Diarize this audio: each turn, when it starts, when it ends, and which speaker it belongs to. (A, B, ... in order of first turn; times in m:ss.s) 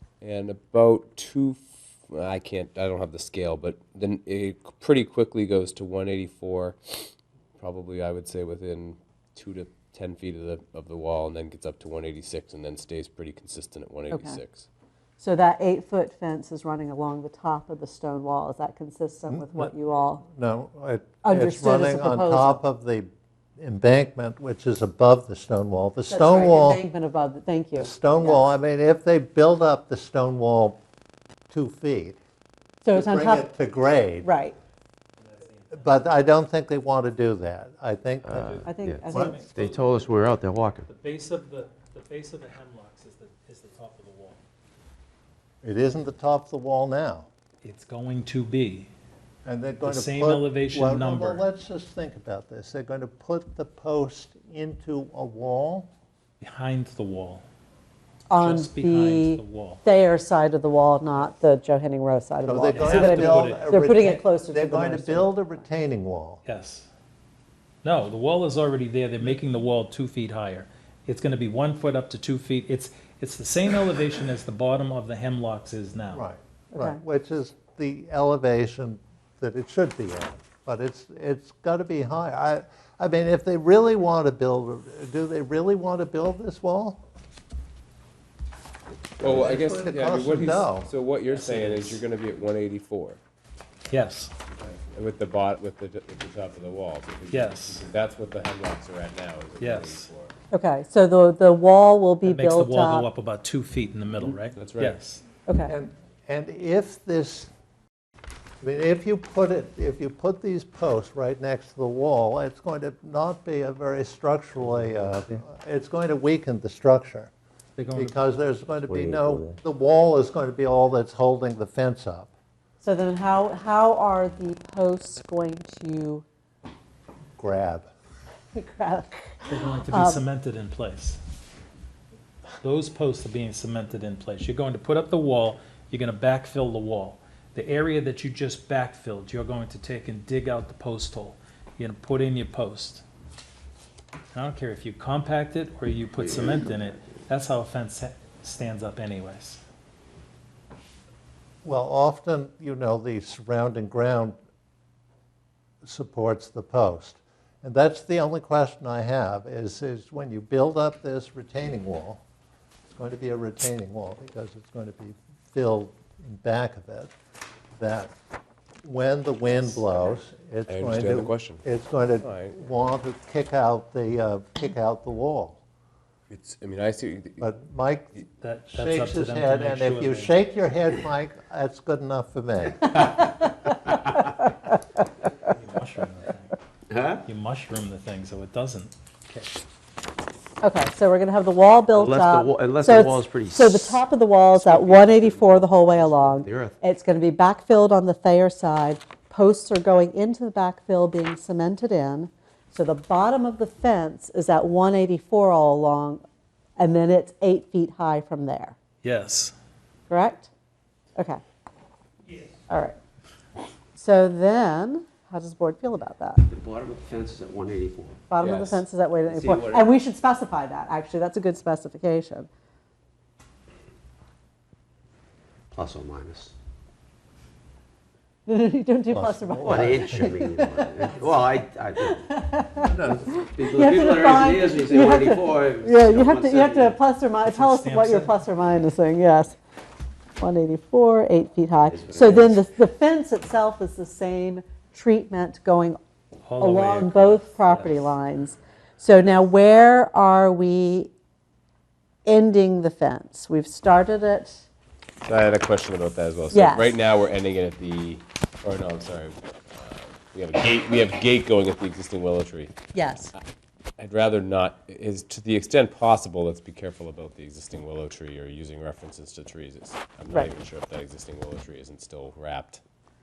0:00.2-0:14.7 A
0:14.1-0:14.4 B
0:15.2-0:20.2 B
0:19.3-0:26.8 C
0:21.2-0:22.6 B
0:26.1-0:28.5 B
0:27.8-0:30.8 C
0:31.5-0:32.2 C
0:32.8-0:33.5 B
0:32.9-0:34.3 C
0:34.2-0:34.6 B
0:35.2-0:35.9 D
0:35.7-0:39.4 C
0:38.2-0:40.9 E
0:38.5-0:40.1 D
0:38.6-0:39.4 B
0:40.9-0:44.4 D
0:45.6-0:47.3 C
0:47.6-0:48.9 D
0:49.4-0:55.9 C
0:49.8-0:51.4 D
0:56.4-0:57.4 D
0:58.3-1:05.6 B
0:58.4-0:59.8 D
1:02.5-1:06.4 C
1:02.8-1:03.7 D
1:06.4-1:06.9 D
1:07.8-1:16.2 D
1:16.1-1:27.0 C
1:16.7-1:17.0 B
1:29.2-1:30.9 C
1:29.2-1:33.2 A
1:31.3-1:32.0 D
1:33.9-1:34.3 D
1:34.6-1:40.3 A
1:37.3-1:37.8 D
1:39.6-1:40.1 D
1:40.5-1:43.1 B
1:42.2-1:45.2 D
1:44.6-1:45.0 A
1:45.5-1:45.8 B
1:45.7-1:47.5 C
1:48.6-1:57.3 C
1:57.8-1:58.2 D
1:57.9-2:02.3 C
1:58.9-1:59.4 E
2:02.8-2:06.2 B
2:07.4-2:07.9 C
2:08.5-2:10.2 B
2:09.5-2:11.2 D
2:12.6-2:23.0 D
2:24.3-2:29.6 D
2:31.6-2:34.4 C
2:35.8-2:42.2 C
2:42.9-2:47.1 C
2:47.8-2:48.1 C
2:48.8-2:55.6 C
2:50.7-2:51.6 A
2:52.2-2:52.7 A
2:56.3-2:57.5 A
2:57.4-3:03.0 C
2:58.4-3:00.3 D
3:05.4-3:06.5 D
3:06.9-3:07.2 E
3:07.3-3:09.5 D
3:10.6-3:26.2 B
3:11.9-3:16.8 E
3:26.8-3:28.8 B
3:29.0-3:29.6 D
3:30.1-3:30.5 B
3:32.7-3:33.0 B
3:34.0-3:36.4 B
3:36.5-3:38.8 E
3:38.3-3:42.5 B
3:38.4-3:38.7 A
3:39.3-3:39.9 A
3:45.7-3:46.5 E
3:48.5-3:51.2 B
3:49.1-3:50.5 C
3:49.6-3:52.3 E
3:52.0-3:59.6 B
3:52.8-3:53.4 C
3:53.4-3:57.0 E
3:57.4-3:58.4 D
4:00.4-4:06.0 B
4:01.8-4:02.6 E
4:06.5-4:08.1 D
4:06.6-4:11.1 B
4:12.3-4:14.7 B
4:15.2-4:22.7 A
4:16.5-4:16.9 B
4:22.9-4:23.3 B
4:24.0-4:32.8 A